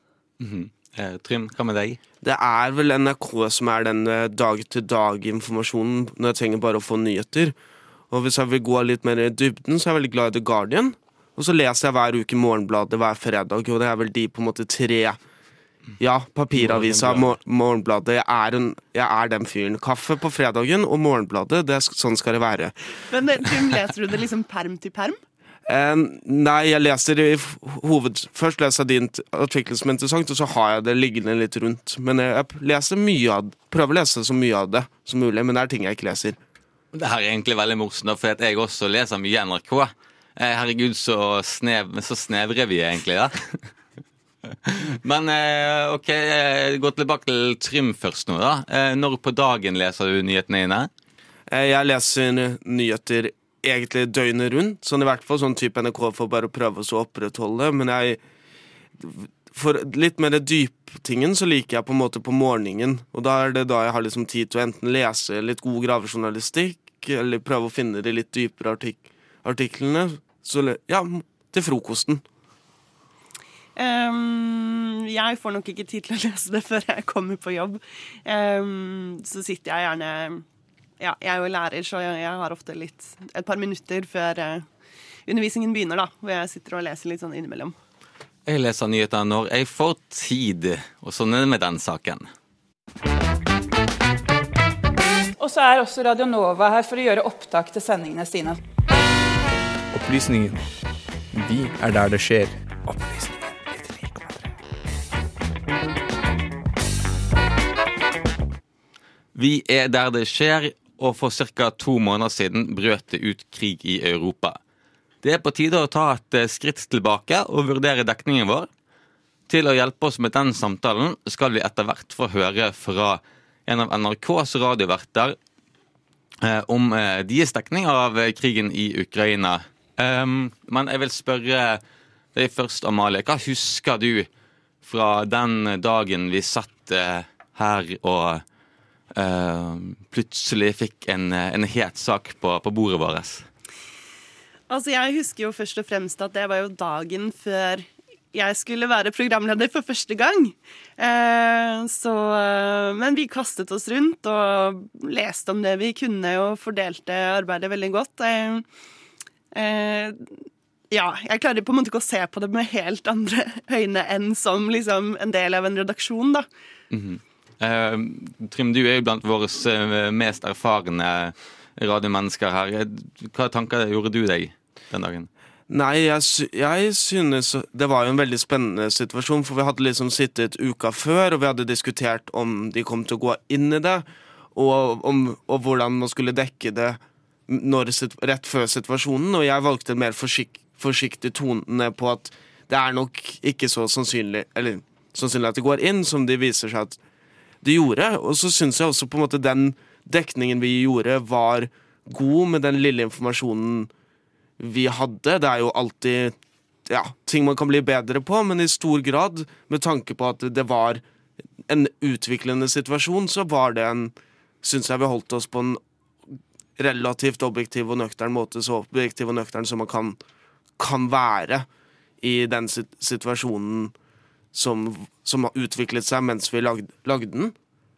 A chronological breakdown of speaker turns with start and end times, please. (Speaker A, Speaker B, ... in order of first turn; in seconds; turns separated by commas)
Speaker A: 0.4-2.0, Speaker B: 2.2-7.5, Speaker B: 8.1-15.2, Speaker B: 16.0-22.7, Speaker A: 16.6-17.3, Speaker C: 23.1-25.2, Speaker B: 25.7-36.4, Speaker A: 36.9-43.5, Speaker A: 44.6-50.9, Speaker B: 51.5-58.2, Speaker B: 59.0-72.2, Speaker C: 73.8-80.4, Speaker C: 81.0-84.7, Speaker C: 85.3-87.7, Speaker A: 88.5-92.3, Speaker D: 95.4-98.6, Speaker E: 99.9-100.6, Speaker E: 101.3-104.4, Speaker A: 109.3-114.6, Speaker A: 115.2-118.7, Speaker A: 119.5-125.3, Speaker A: 126.4-131.8, Speaker A: 132.3-134.3, Speaker A: 134.8-138.4, Speaker A: 139.2-143.5, Speaker C: 144.7-158.7, Speaker C: 159.5-160.4, Speaker C: 160.9-166.4, Speaker A: 166.9-175.3, Speaker B: 175.7-197.0, Speaker B: 197.6-203.9, Speaker B: 204.6-206.3, Speaker B: 206.9-211.0, Speaker B: 211.7-215.8, Speaker B: 216.8-220.2, Speaker B: 220.8-221.7, Speaker B: 222.2-223.9, Speaker B: 224.5-227.5